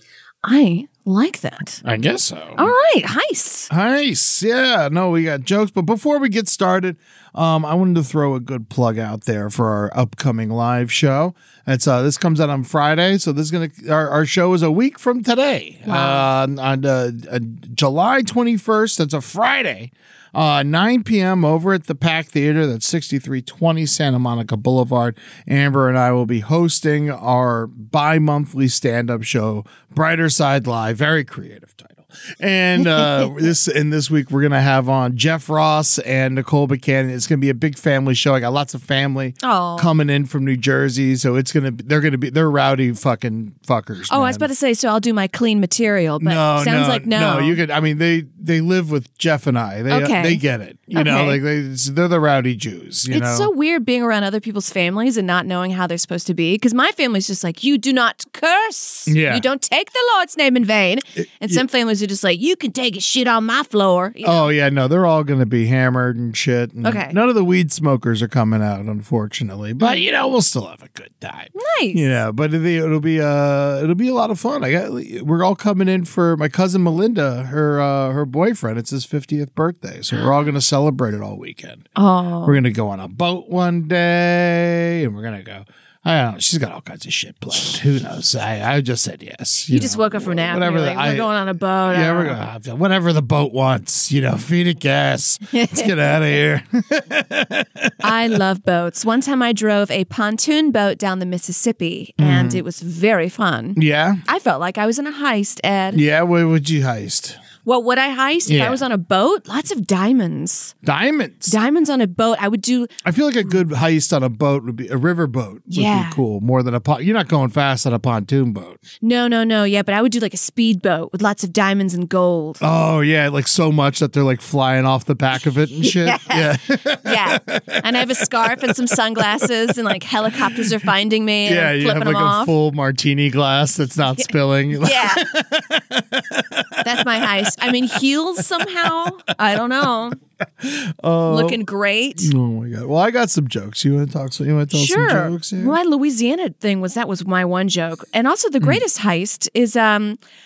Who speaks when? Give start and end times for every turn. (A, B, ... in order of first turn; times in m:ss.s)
0:00.4-0:01.8 A
0:01.8-0:02.7 B
0:02.6-0:03.7 A
0:03.7-0:44.5 B
0:15.8-0:16.3 A
0:32.8-0:33.3 A
0:39.4-0:39.9 A
0:44.1-0:47.6 A
0:46.2-0:53.5 B
0:49.9-0:51.4 A
0:53.1-1:04.5 A
0:59.1-0:59.4 B
1:01.2-1:01.6 B
1:04.2-1:21.8 B
1:06.8-1:07.2 A
1:11.5-1:12.0 A
1:22.0-1:22.6 A
1:22.4-1:31.3 B
1:29.7-1:32.4 A
1:31.9-1:38.4 B
1:35.5-1:36.1 A
1:38.0-1:46.0 A
1:42.2-1:42.6 B
1:43.8-1:44.2 B
1:45.9-1:47.4 B
1:47.6-1:50.7 A
1:48.4-1:48.8 B
1:50.8-1:51.6 B
1:51.5-1:52.9 A
1:53.0-1:58.8 B
1:55.7-1:56.2 A
1:59.0-2:02.6 A
2:02.6-2:09.4 B
2:05.8-2:12.5 A
2:10.3-2:10.8 B
2:11.4-2:19.1 B
2:14.2-2:15.2 A
2:16.8-2:20.2 A
2:20.6-2:21.6 B
2:21.3-2:22.3 A
2:22.2-2:25.8 B
2:24.7-2:30.2 A